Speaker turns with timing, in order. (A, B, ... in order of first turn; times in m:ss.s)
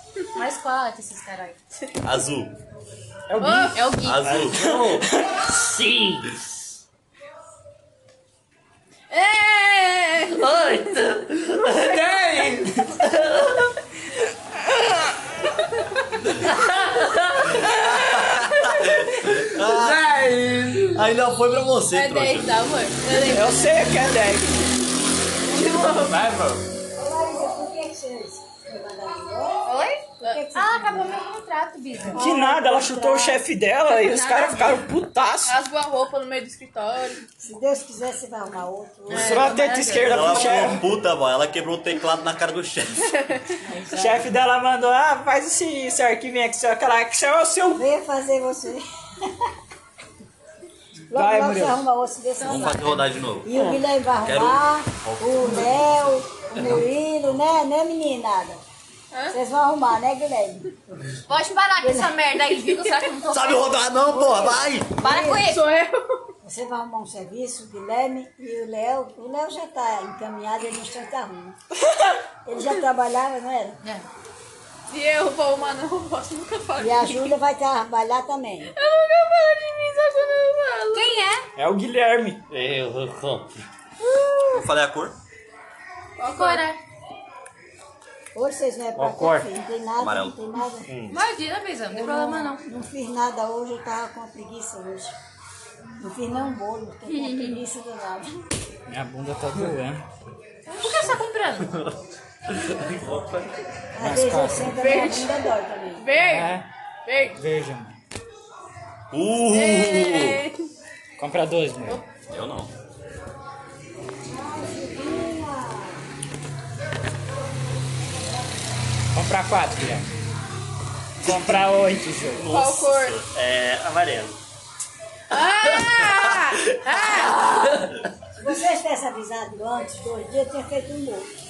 0:00.4-0:01.6 A
0:02.0-0:02.6 B
0:03.3-0:03.8 C
0:03.4-0:03.9 D
0:03.7-0:04.3 A
0:04.0-0:04.8 B
0:04.2-0:06.5 E
0:04.6-0:05.5 C
0:09.1-0:11.0 D
0:10.3-0:13.7 E
0:16.4-0:18.0 E
0:17.4-0:20.1 B
0:18.6-0:19.0 D
0:19.2-0:21.1 E
0:20.8-0:22.6 B
0:21.8-0:23.2 A
0:23.0-0:23.8 D
0:23.2-0:24.6 C
0:25.5-0:26.2 D
0:25.9-0:26.7 E
0:27.0-0:31.1 F
0:29.6-0:30.0 A
0:30.5-0:32.2 A
0:32.1-0:33.4 F
0:32.2-0:35.6 C
0:33.9-0:34.8 A
0:35.4-0:37.2 D
0:37.4-0:39.4 F
0:39.1-0:40.8 A
0:39.1-0:40.8 C
0:40.0-0:43.2 B
0:43.1-0:43.5 D
0:43.7-0:44.2 A
0:43.9-0:47.8 C
0:47.7-0:49.5 F
0:51.1-0:51.8 C
0:51.1-0:52.9 F
0:52.4-0:53.0 A
0:52.4-0:53.6 B
0:53.4-0:58.6 F
0:54.2-0:56.0 B
0:59.1-0:59.4 D
0:59.3-1:00.7 F
1:01.3-1:03.8 A
1:01.8-1:02.2 F
1:02.5-1:03.2 D
1:03.3-1:04.9 B
1:04.1-1:05.5 F
1:05.0-1:05.6 A
1:05.4-1:06.3 D
1:06.4-1:11.6 F
1:12.4-1:13.8 F
1:13.8-1:14.1 A
1:14.9-1:17.3 D
1:16.8-1:18.7 F
1:18.8-1:21.2 D
1:20.9-1:21.5 A
1:21.6-1:22.4 C
1:22.5-1:23.6 E
1:24.5-1:25.2 B
1:26.2-1:26.7 D
1:26.2-1:26.8 A
1:28.4-1:30.9 F
1:29.0-1:29.5 E
1:30.0-1:30.4 B
1:30.9-1:31.2 E
1:31.1-1:32.6 A
1:31.9-1:35.2 F
1:36.0-1:38.5 F
1:37.1-1:37.6 A
1:38.9-1:40.0 C
1:40.7-1:41.9 A
1:40.8-1:41.1 F
1:42.5-1:43.6 E
1:44.0-1:46.1 F
1:44.0-1:44.7 C
1:44.8-1:47.4 D
1:46.2-1:46.7 C
1:47.4-1:48.0 C
1:49.1-1:50.4 B
1:49.5-1:50.6 D
1:51.2-1:52.0 C
1:52.3-1:52.7 B
1:54.2-1:56.0 F
1:59.1-2:00.1 C
2:01.2-2:02.5 C
2:02.3-2:03.3 B
2:02.5-2:03.2 D
2:03.3-2:04.4 E
2:05.3-2:07.8 D
2:07.0-2:08.1 E
2:08.4-2:11.3 F